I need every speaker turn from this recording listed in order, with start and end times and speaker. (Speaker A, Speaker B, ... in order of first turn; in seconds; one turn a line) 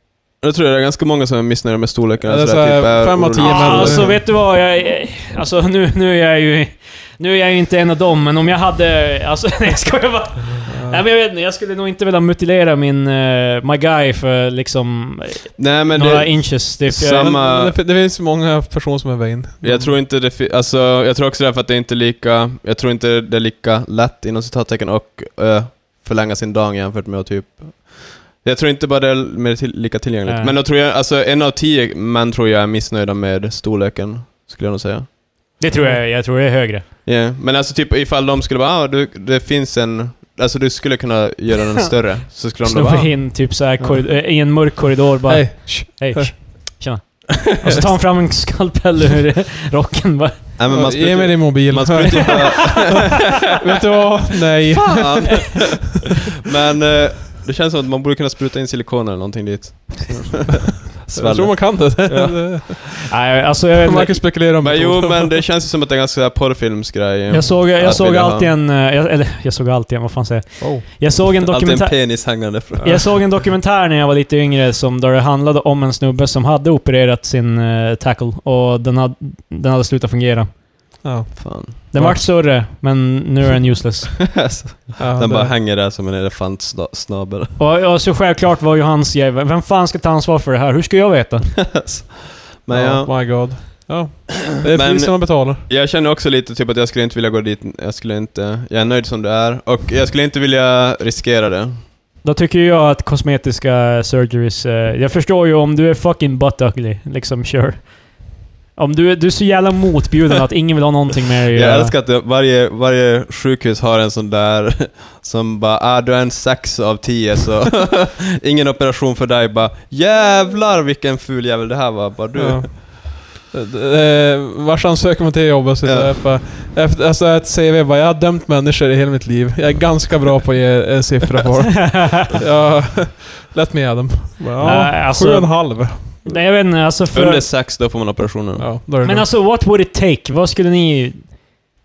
Speaker A: 0.4-4.2
Speaker B: 2.3-4.2
Speaker C: 3.4-17.4
Speaker B: 10.7-11.0
Speaker A: 15.6-17.8
Speaker B: 17.0-19.9
Speaker A: 19.6-35.2
Speaker C: 30.2-30.6
Speaker C: 35.6-36.8
Speaker B: 35.7-36.0
Speaker A: 37.0-44.0
Speaker C: 42.6-50.5
Speaker B: 45.3-46.4
Speaker A: 47.6-47.9
Speaker A: 50.6-53.2
Speaker B: 50.7-55.7
Speaker A: 54.8-62.7
Speaker B: 61.1-63.3
Speaker C: 63.1-64.3
Speaker B: 63.8-65.4
Speaker A: 64.6-68.5
Speaker C: 67.3-80.6
Speaker A: 71.4-73.1
Speaker B: 81.0-82.3
Speaker A: 81.4-81.8
Speaker C: 81.9-84.2
Speaker A: 84.2-87.6
Speaker B: 85.0-85.5
Speaker C: 87.6-91.6
Speaker A: 91.7-93.5
Speaker B: 92.7-95.6
Speaker A: 94.6-101.8
Speaker C: 102.2-112.0
Speaker A: 111.5-122.8
Speaker B: 122.4-136.4
Speaker A: 125.8-126.3
Speaker C: 131.9-132.2
Speaker C: 134.6-137.5
Speaker A: 137.1-138.7
Speaker B: 138.6-139.3
Speaker C: 139.0-141.5